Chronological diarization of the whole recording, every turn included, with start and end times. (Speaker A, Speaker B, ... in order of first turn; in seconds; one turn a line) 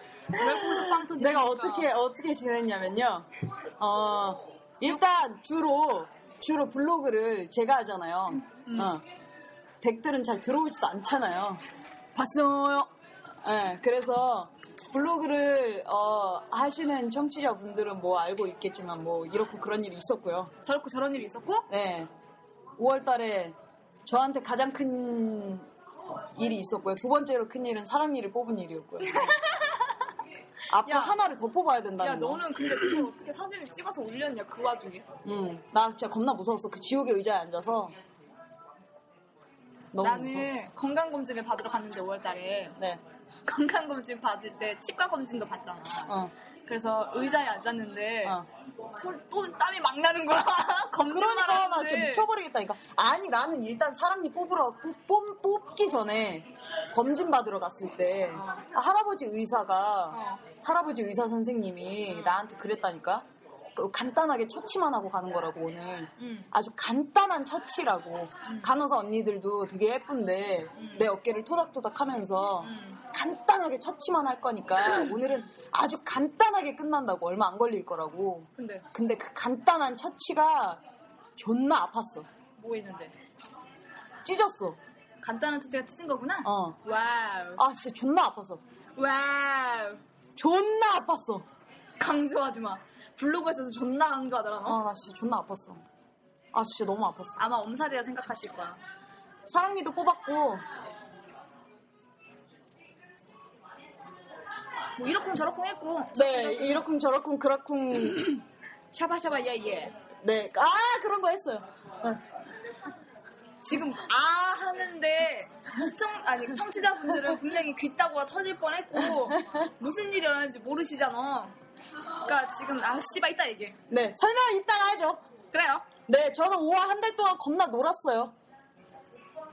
Speaker A: 0.3-1.9
Speaker B: 0.3-3.3
Speaker B: 3.8-9.0
Speaker A: 8.7-8.9
Speaker B: 9.8-11.6
Speaker A: 12.2-12.9
Speaker B: 13.4-20.5
Speaker A: 20.6-21.7
Speaker B: 21.7-22.1
Speaker B: 22.8-25.7
Speaker B: 26.4-29.4
Speaker A: 29.0-29.8
Speaker B: 30.7-32.4
Speaker A: 30.8-31.2
Speaker A: 32.0-35.1
Speaker B: 35.2-37.9
Speaker B: 39.9-40.5
Speaker A: 40.0-42.8
Speaker A: 43.4-46.1
Speaker B: 46.1-46.3
Speaker A: 46.6-48.4
Speaker A: 49.0-52.2
Speaker B: 51.0-80.8
Speaker A: 58.3-58.6
Speaker A: 60.1-60.4
Speaker A: 62.1-62.4
Speaker A: 66.2-66.5
Speaker A: 68.4-68.7
Speaker A: 70.8-71.1
Speaker A: 72.6-73.0
Speaker A: 78.6-78.8
Speaker B: 81.4-82.3
Speaker A: 82.6-83.1
Speaker B: 84.2-84.8
Speaker A: 85.2-87.6
Speaker B: 86.4-86.8
Speaker B: 87.5-88.6
Speaker A: 89.0-90.0
Speaker B: 90.4-91.5
Speaker A: 92.0-94.8
Speaker B: 94.6-95.8
Speaker B: 96.5-97.4
Speaker A: 97.4-98.8
Speaker B: 99.5-100.6
Speaker A: 105.0-106.8
Speaker B: 106.1-108.4
Speaker A: 108.9-109.9
Speaker B: 110.2-112.2
Speaker A: 113.6-121.5
Speaker A: 122.2-123.8
Speaker B: 123.9-125.2
Speaker A: 125.5-125.9
Speaker B: 126.1-128.3